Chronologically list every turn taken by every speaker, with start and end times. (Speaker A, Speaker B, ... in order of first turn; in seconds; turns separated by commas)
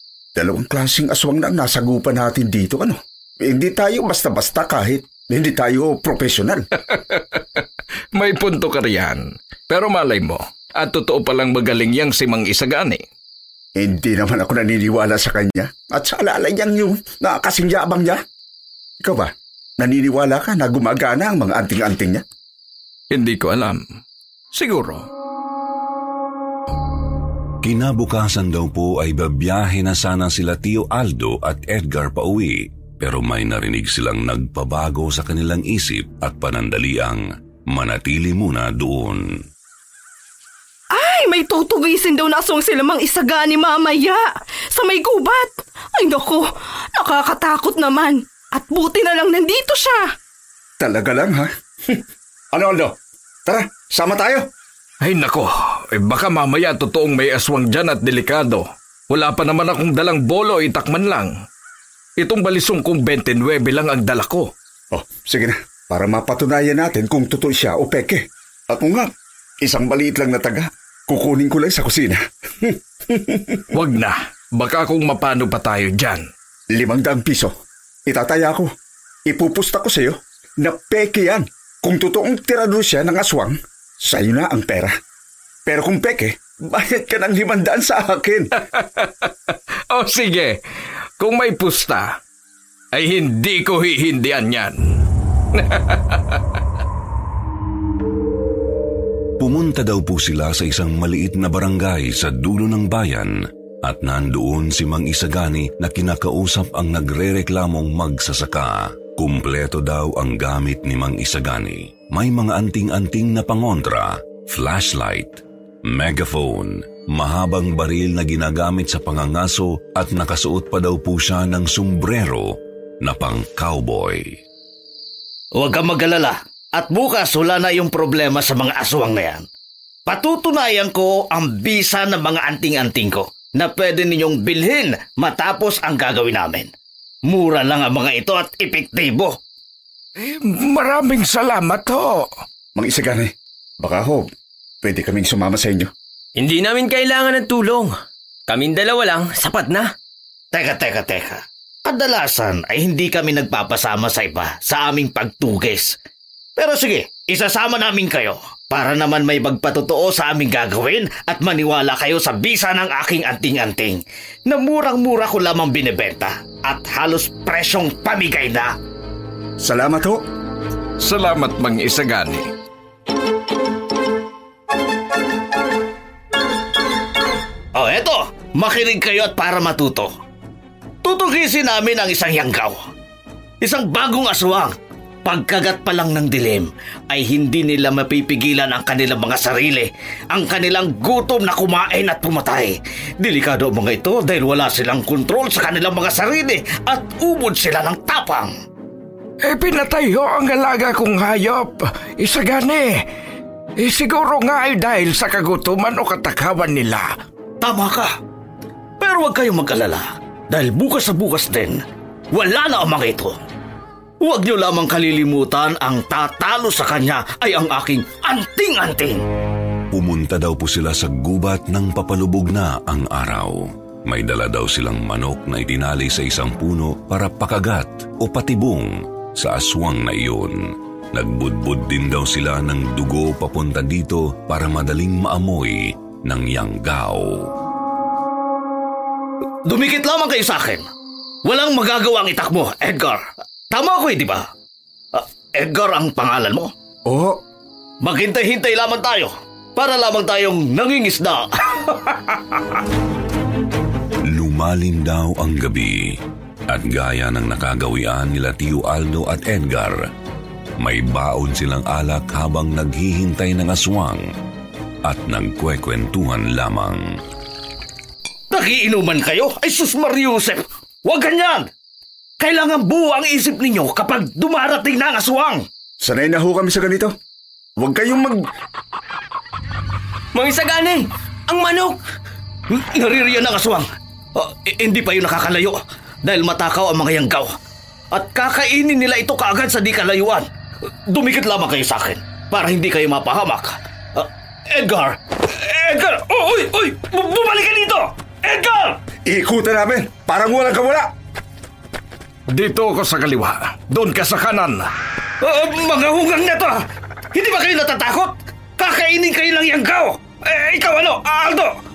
Speaker A: 0.3-6.7, Speaker B: 6.9-7.6, Speaker B: 8.1-13.0, Speaker A: 13.8-18.2, Speaker A: 19.0-22.2, Speaker B: 23.1-23.8, Speaker B: 24.5-25.1, Speaker C: 27.6-39.2, Speaker D: 40.9-50.1, Speaker A: 50.8-52.0, Speaker A: 52.5-52.9, Speaker A: 53.5-54.5, Speaker B: 55.0-61.3, Speaker B: 62.2-64.5, Speaker A: 64.9-69.1, Speaker A: 69.6-73.7, Speaker B: 73.7-76.3, Speaker A: 76.7-77.5, Speaker A: 78.1-78.7, Speaker A: 79.3-84.9, Speaker A: 85.7-88.5, Speaker B: 88.7-89.3, Speaker B: 89.9-90.6, Speaker B: 91.2-92.2, Speaker B: 92.9-94.9, Speaker B: 95.5-96.4, Speaker C: 99.4-124.3, Speaker E: 125.6-129.4, Speaker E: 130.1-136.7, Speaker E: 137.3-139.4, Speaker B: 140.2-142.3, Speaker A: 142.8-144.3, Speaker A: 144.8-145.9, Speaker F: 146.3-147.9, Speaker F: 148.5-149.9, Speaker E: 150.5-155.9, Speaker E: 156.6-168.7, Speaker A: 169.6-170.2, Speaker B: 171.0-172.4, Speaker E: 177.7-180.1, Speaker E: 181.0-182.8, Speaker E: 183.6-184.7, Speaker E: 185.2-198.5, Speaker B: 199.4-203.0, Speaker B: 203.8-207.1, Speaker E: 207.6-208.1, Speaker E: 209.0-211.8, Speaker E: 212.3-213.4, Speaker E: 214.2-219.2, Speaker C: 219.9-237.5, Speaker E: 239.7-240.9, Speaker E: 241.4-244.5, Speaker E: 245.1-246.7, Speaker A: 247.1-247.4, Speaker E: 248.0-252.8, Speaker C: 254.3-256.1, Speaker C: 256.7-260.0, Speaker C: 260.8-264.2, Speaker C: 265.0-267.0, Speaker E: 268.5-271.7, Speaker E: 272.4-275.6, Speaker A: 276.0-277.1, Speaker A: 277.8-278.4, Speaker F: 280.3-282.0, Speaker E: 282.7-287.5, Speaker E: 288.1-290.4, Speaker E: 291.1-299.0, Speaker A: 299.2-301.1, Speaker B: 302.5-304.9, Speaker E: 305.4-311.7